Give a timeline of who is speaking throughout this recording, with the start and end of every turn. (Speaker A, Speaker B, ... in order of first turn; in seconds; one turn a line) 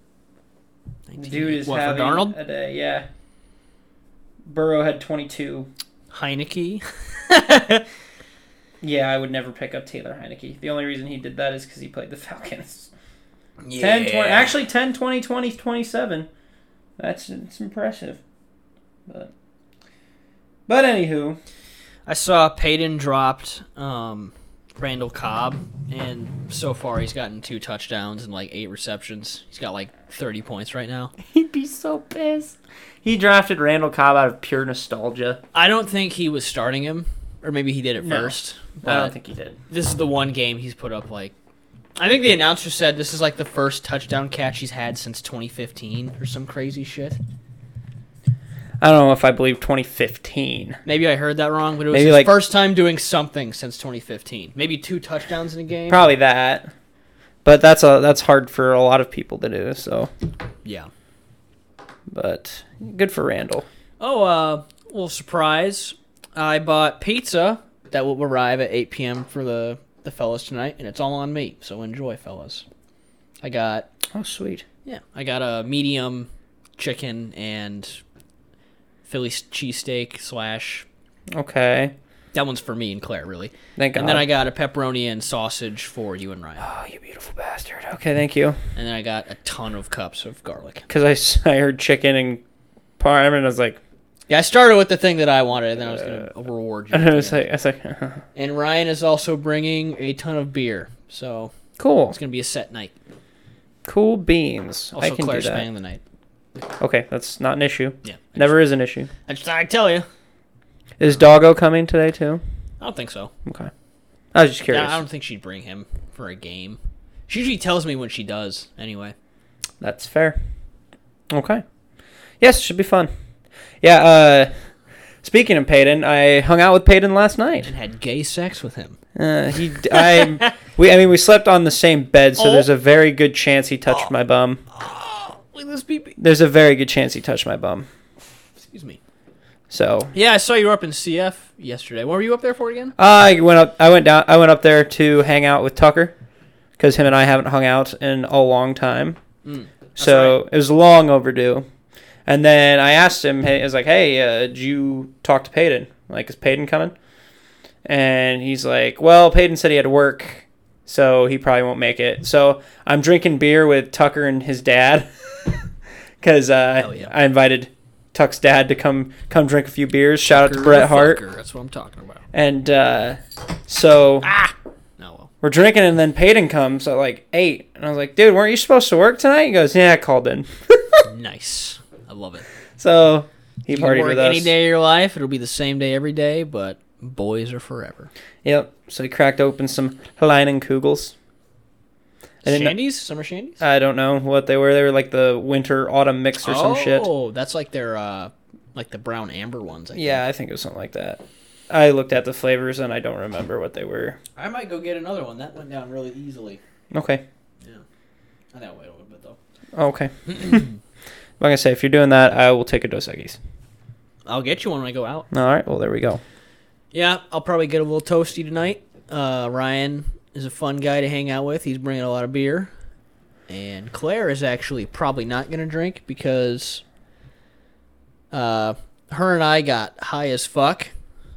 Speaker A: 1.1-2.4
Speaker B: 1.2-3.1
Speaker B: 4.5-5.7
Speaker A: 6.1-7.8
Speaker B: 8.8-12.9
Speaker A: 13.6-14.6
Speaker B: 13.8-16.3
Speaker B: 17.0-18.2
Speaker B: 19.1-19.3
Speaker B: 20.7-21.4
Speaker A: 22.1-31.1
Speaker B: 31.3-35.4
Speaker A: 35.5-39.1
Speaker B: 38.0-39.6
Speaker A: 39.7-41.3
Speaker A: 42.0-47.2
Speaker B: 48.8-50.8
Speaker A: 50.8-56.1
Speaker B: 51.9-52.3
Speaker B: 55.9-56.7
Speaker B: 57.4-60.1
Speaker A: 60.6-60.9
Speaker B: 62.1-63.6
Speaker A: 64.0-72.6
Speaker A: 73.4-73.9
Speaker B: 74.1-74.6
Speaker A: 74.8-78.0
Speaker A: 79.0-80.9
Speaker B: 81.3-81.9
Speaker A: 82.3-86.6
Speaker B: 83.8-84.3
Speaker B: 86.6-88.6
Speaker A: 88.7-90.9
Speaker B: 90.9-92.4
Speaker B: 93.0-93.8
Speaker A: 94.3-97.5
Speaker B: 95.9-96.2
Speaker B: 96.9-98.2
Speaker A: 98.3-101.5
Speaker B: 101.8-102.1
Speaker A: 102.1-102.9
Speaker B: 103.8-105.7
Speaker A: 104.9-106.0
Speaker B: 106.8-109.1
Speaker A: 108.0-108.5
Speaker A: 109.2-110.0
Speaker B: 111.0-112.4
Speaker A: 112.8-113.3
Speaker B: 113.5-113.7
Speaker B: 114.3-115.0
Speaker A: 114.7-119.1
Speaker B: 119.8-120.4
Speaker B: 121.3-121.6
Speaker B: 122.4-123.1
Speaker B: 123.8-124.5
Speaker B: 125.2-127.7
Speaker A: 127.6-129.0
Speaker B: 129.1-134.6
Speaker A: 129.9-130.5
Speaker A: 132.4-132.7
Speaker A: 134.7-136.2
Speaker B: 136.2-137.9
Speaker A: 138.7-139.0
Speaker B: 139.7-140.1
Speaker A: 140.1-142.9
Speaker B: 143.0-146.1
Speaker B: 146.8-149.2
Speaker A: 149.4-150.4
Speaker B: 150.0-151.6
Speaker B: 152.3-156.9
Speaker B: 157.8-165.6
Speaker B: 166.2-171.2
Speaker A: 166.8-167.1
Speaker A: 170.3-172.2
Speaker B: 172.3-174.3
Speaker A: 174.2-175.3
Speaker B: 175.4-181.0
Speaker A: 181.1-182.4
Speaker B: 182.8-184.5
Speaker A: 183.7-188.1
Speaker B: 188.4-191.1
Speaker B: 192.4-192.8
Speaker A: 192.4-193.6
Speaker B: 193.6-197.1
Speaker A: 196.4-200.2
Speaker B: 199.9-204.2
Speaker A: 204.4-206.6
Speaker B: 206.9-207.2
Speaker A: 208.5-209.4
Speaker B: 209.7-210.7
Speaker B: 211.4-213.4
Speaker A: 214.2-215.3
Speaker B: 215.3-216.2
Speaker A: 216.9-222.7
Speaker A: 223.5-226.8
Speaker A: 228.3-230.9